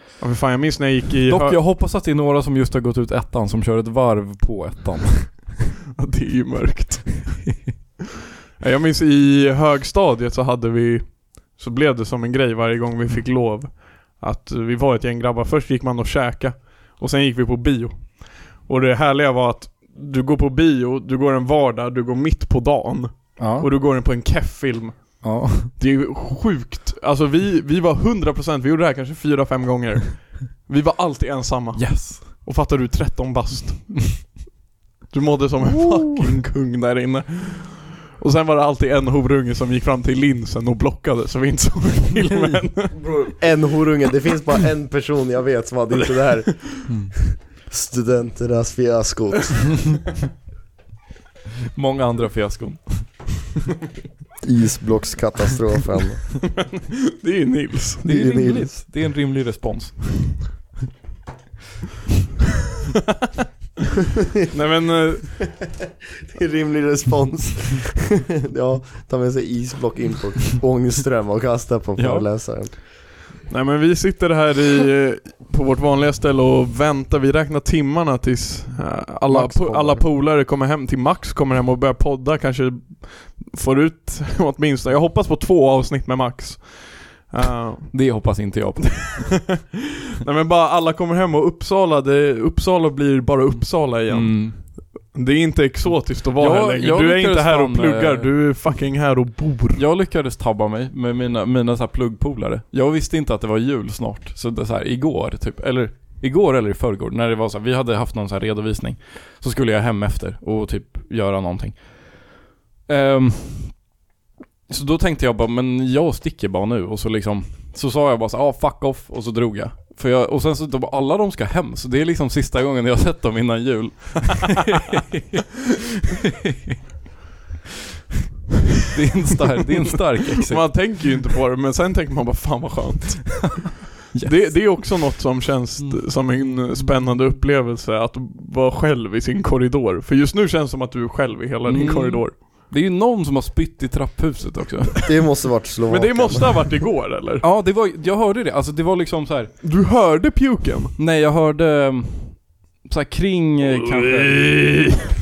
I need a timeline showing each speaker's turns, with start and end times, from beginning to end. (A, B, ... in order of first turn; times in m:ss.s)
0:00.2-0:01.6 A
0:01.2-0:05.6 B
0:06.0-0:07.5 A
0:08.6-0:34.2 A
0:23.4-0:23.7 B
0:25.2-0:25.7 B
0:31.8-0:32.2 B
0:35.1-0:43.0 A
0:35.8-0:36.3 B
0:42.9-0:50.0 C
0:46.9-0:47.1 B
0:51.7-0:53.4 B
0:54.4-0:56.4 C
0:56.9-0:58.0 A
0:58.0-1:00.5 B
0:58.0-0:58.7 C
1:04.5-1:05.3 A
1:06.3-1:12.7 C
1:12.0-1:12.3 B
1:13.5-1:28.3 A
1:19.3-1:20.0 C
1:27.9-1:29.5 B
1:30.2-1:39.8 A
1:34.1-1:34.8 B
1:35.9-1:38.3 B
1:39.7-1:52.3 B
1:52.9-1:53.8 B
1:54.7-2:05.4 B
2:08.9-2:11.0 B
2:10.4-2:22.4 A
2:14.1-2:15.0 B
2:15.8-2:17.0 B
2:21.6-2:25.0 B
2:25.0-2:26.6 C
2:25.9-2:27.4 A
2:27.4-2:29.6 B
2:29.6-2:30.9 A
2:31.0-2:34.7 B
2:33.9-2:35.0 A